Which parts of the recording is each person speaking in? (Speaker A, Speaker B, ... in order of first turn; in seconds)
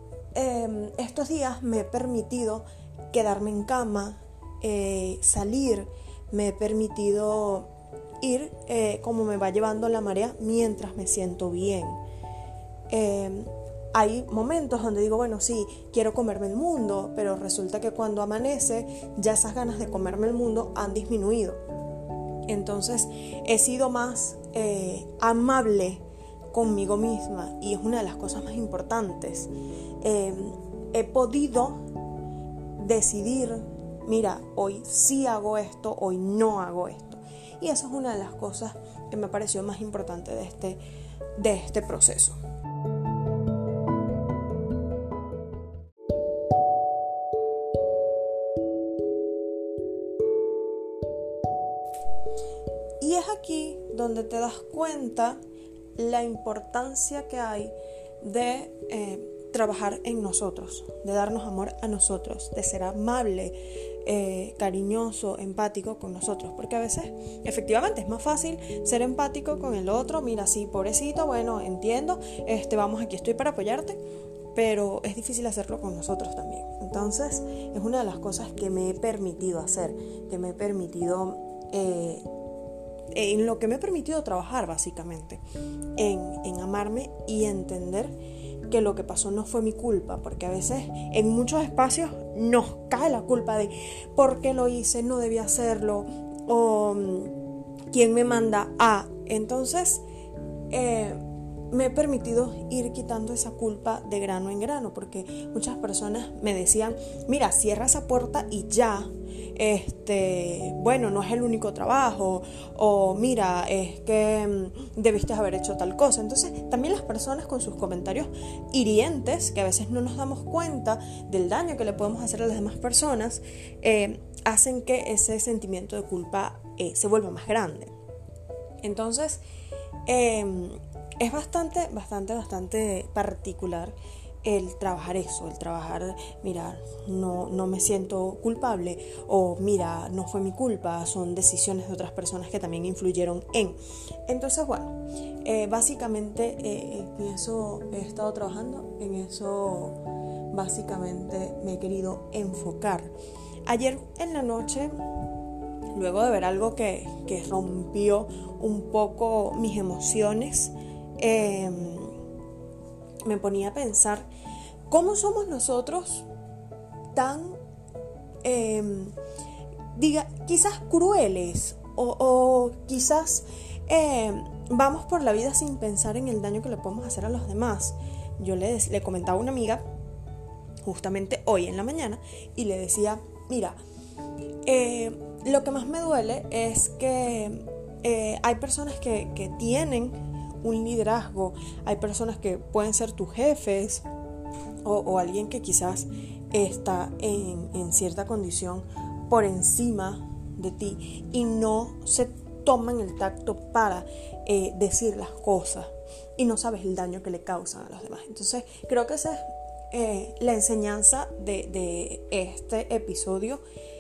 Speaker A: 0.3-7.7, 8.2-12.0, 12.9-21.6, 22.5-29.5, 30.0-31.8, 32.8-40.8, 41.4-42.4, 53.0-55.4, 56.0-74.0, 74.5-82.3, 83.1-85.4, 86.0-88.1, 88.7-97.3, 97.9-100.0, 100.7-127.9, 128.8-129.4, 130.1-150.0, 150.5-153.1, 153.7-154.9, 155.9-162.2, 163.3-164.3, 164.9-166.3, 167.1-167.6, 168.4-169.2, 169.9-179.8, 180.8-183.8, 184.7-194.1, 194.8-213.6